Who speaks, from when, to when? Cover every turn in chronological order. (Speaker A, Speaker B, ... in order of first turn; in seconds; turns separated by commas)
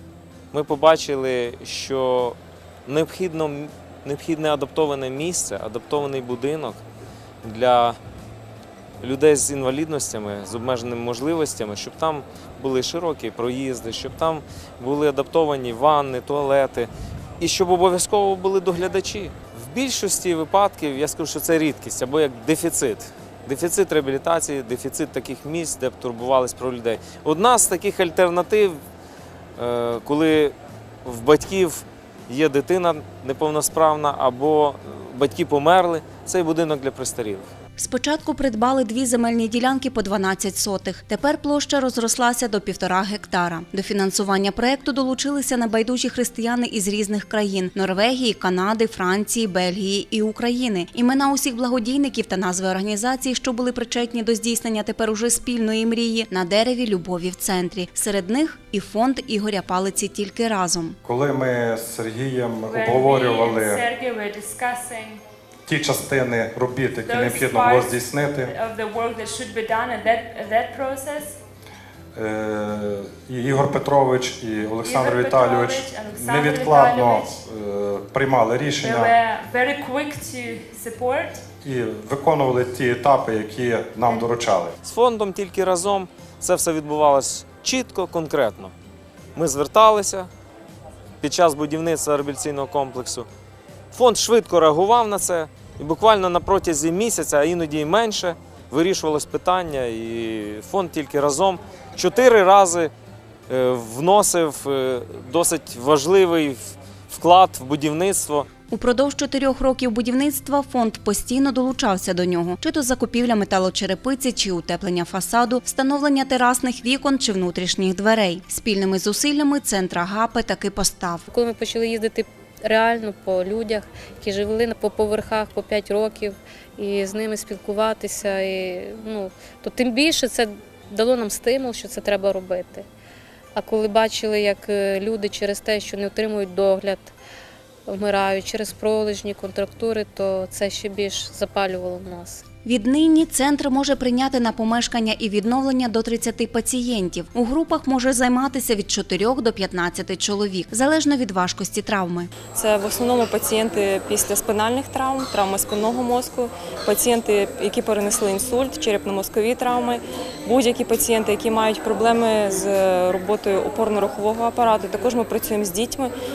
Speaker A: 0.5-6.8, Speaker A: 7.4-8.0, Speaker A: 9.0-28.8, Speaker A: 29.6-37.5, Speaker B: 37.8-61.0, Speaker C: 61.0-63.8, Speaker D: 62.7-65.2, Speaker C: 65.7-68.5, Speaker D: 67.0-71.4, Speaker C: 72.1-79.2, Speaker D: 74.8-77.3, Speaker D: 78.8-81.4, Speaker C: 81.6-84.7, Speaker A: 84.8-88.7, Speaker A: 89.3-90.3, Speaker A: 91.2-93.3, Speaker A: 93.9-102.9, Speaker A: 103.5-108.5, Speaker B: 108.7-121.3, Speaker E: 121.3-132.8, Speaker E: 133.5-137.1, Speaker E: 137.9-142.4, Speaker B: 142.7-152.3, Speaker F: 152.6-159.9, Speaker F: 160.5-162.6, Speaker F: 163.1-166.0